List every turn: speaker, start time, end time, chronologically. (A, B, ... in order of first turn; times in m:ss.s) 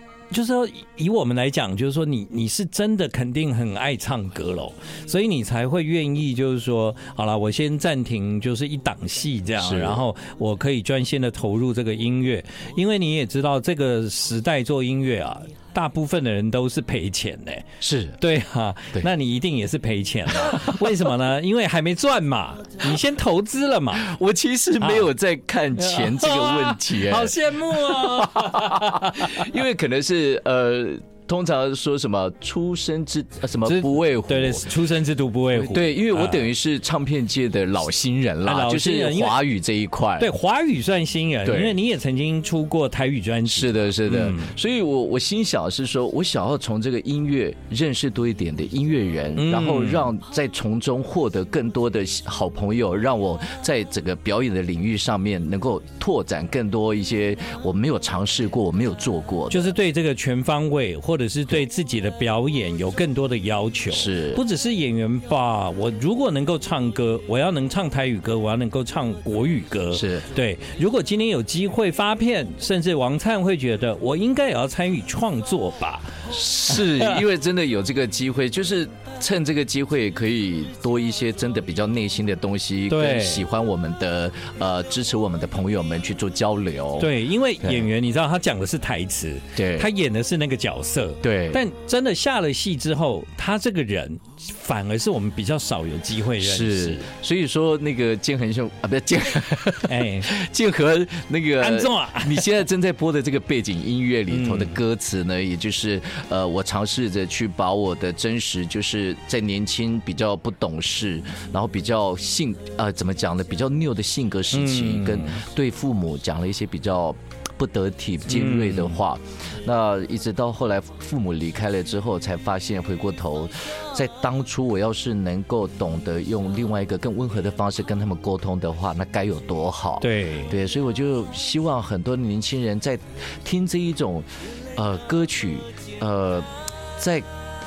0:00.3-0:17.7 A
0:09.6-0:10.0 B
0:17.8-0:18.2 B
0:18.2-0:24.1 A
0:20.3-0:21.0 B
0:24.0-0:34.7 B
0:24.8-0:25.1 A
0:25.8-0:29.5 A
0:33.6-0:36.5 A
0:35.5-0:40.3 B
0:38.4-0:39.4 A
0:40.2-0:44.5 A
0:41.4-0:41.8 B
0:43.5-0:59.7 B
0:49.4-0:50.1 A
0:59.5-1:17.2 A
1:03.9-1:04.4 B
1:09.9-1:10.3 B
1:16.3-1:27.1 B
1:22.9-1:23.5 A
1:27.0-1:37.1 A
1:27.6-1:27.9 B
1:29.6-1:29.9 B
1:31.2-1:31.6 B
1:36.4-2:17.3 B
1:39.9-1:40.3 A
1:41.6-1:42.5 A
1:44.3-1:44.8 A
1:54.5-1:55.4 A
1:58.3-1:59.0 A
2:10.0-2:10.6 A